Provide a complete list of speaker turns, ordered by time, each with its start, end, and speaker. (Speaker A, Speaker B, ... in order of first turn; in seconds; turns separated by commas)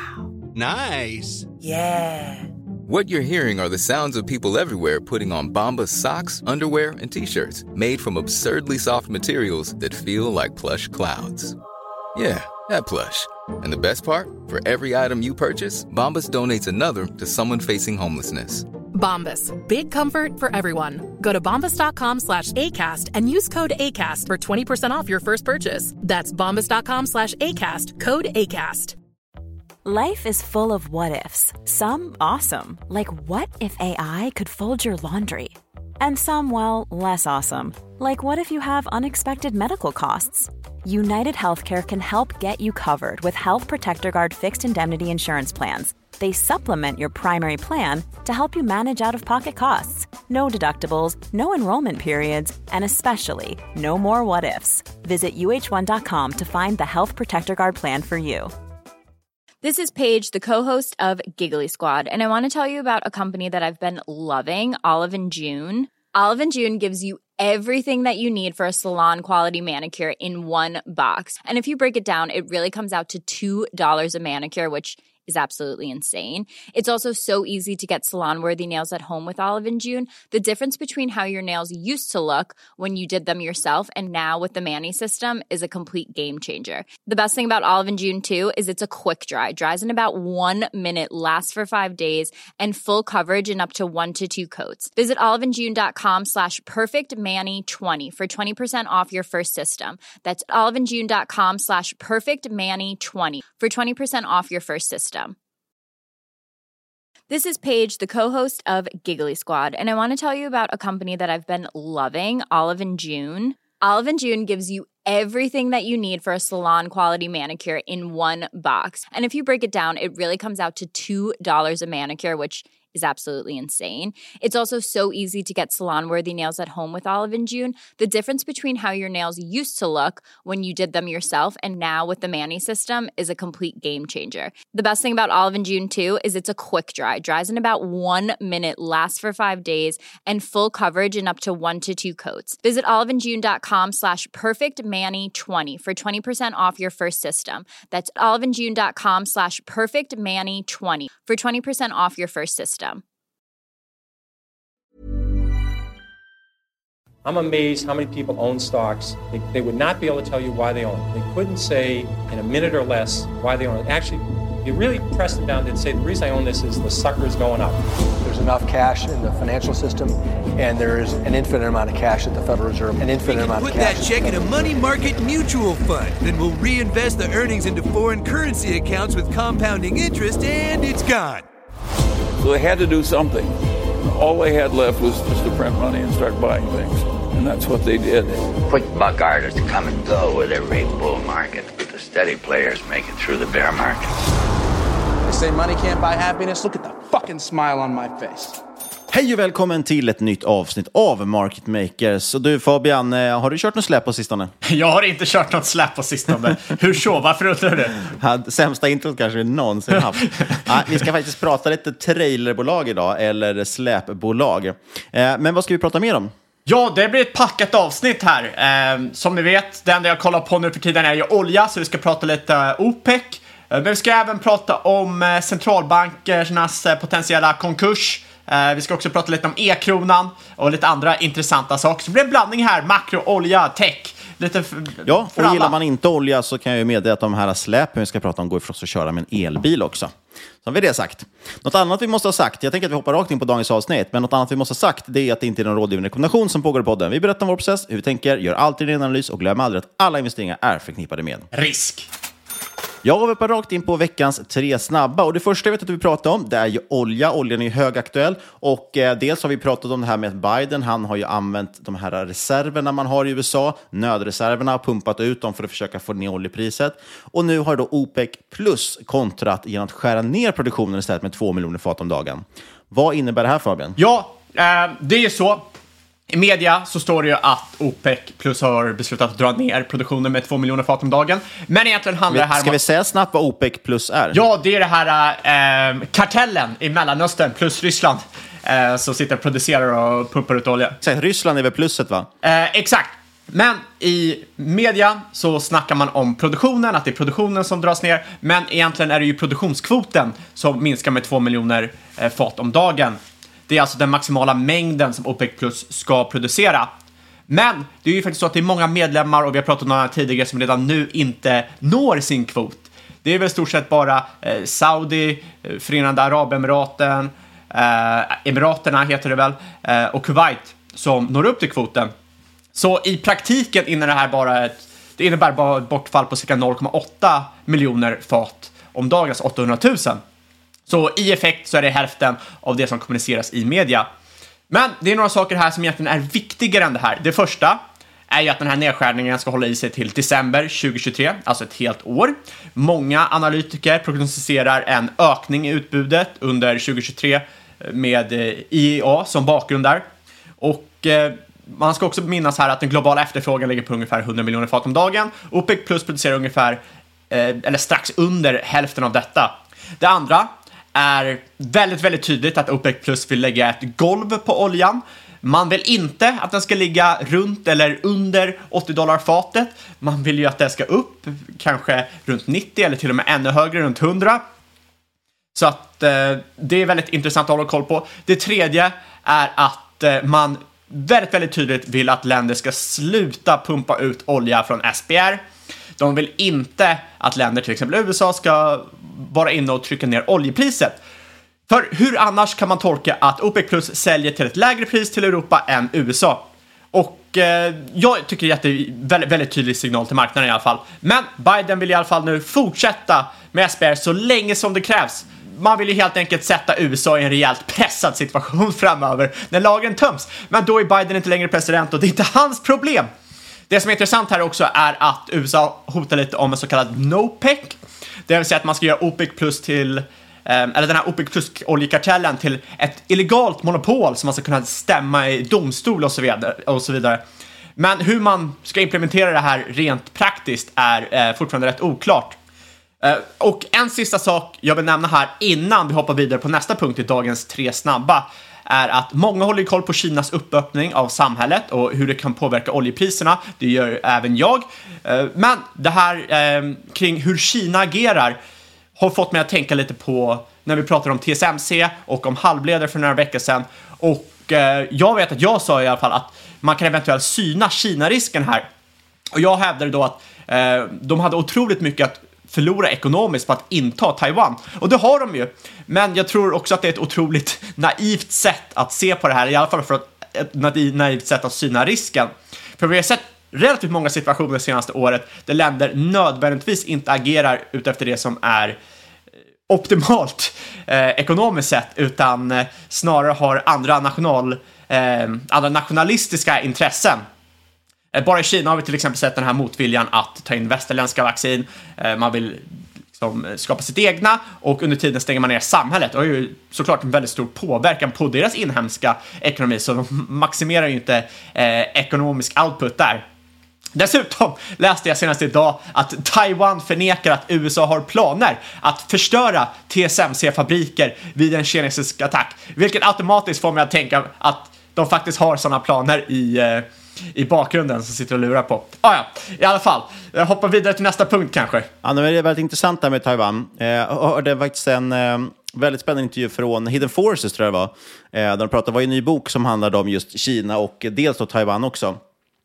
Speaker A: 0.6-1.5, Speaker B: 1.6-2.3, Speaker C: 2.9-11.6, Speaker C: 12.2-18.7, Speaker D: 18.9-29.0, Speaker E: 29.8-58.5, Speaker F: 59.6-105.3, Speaker F: 107.3-153.0, Speaker G: 157.2-167.8, Speaker H: 168.2-174.4, Speaker A: 173.2-181.4, Speaker I: 182.4-188.4, Speaker J: 188.7-194.1, Speaker B: 195.3-198.6, Speaker K: 199.1-204.5, Speaker L: 204.7-208.1, Speaker K: 208.2-216.3, Speaker L: 216.7-235.7, Speaker K: 235.1-240.1, Speaker K: 240.6-251.5, Speaker L: 251.5-252.1, Speaker K: 253.0-274.0, Speaker L: 274.0-275.7, Speaker L: 276.3-282.8, Speaker K: 282.3-284.4, Speaker L: 284.3-291.0, Speaker K: 291.0-292.3, Speaker L: 292.4-306.9, Speaker L: 307.5-322.1, Speaker L: 322.8-330.2, Speaker L: 330.9-334.1, Speaker L: 334.7-337.8, Speaker L: 338.3-350.1, Speaker L: 350.6-374.4, Speaker L: 375.6-385.4, Speaker L: 386.0-391.0, Speaker L: 391.7-413.1, Speaker L: 413.7-417.8, Speaker L: 418.3-427.2, Speaker L: 427.8-432.4, Speaker L: 433.0-448.4, Speaker L: 449.0-458.7, Speaker L: 459.3-478.8, Speaker L: 479.7-487.2, Speaker L: 488.1-503.2, Speaker L: 503.9-521.9, Speaker K: 522.0-532.2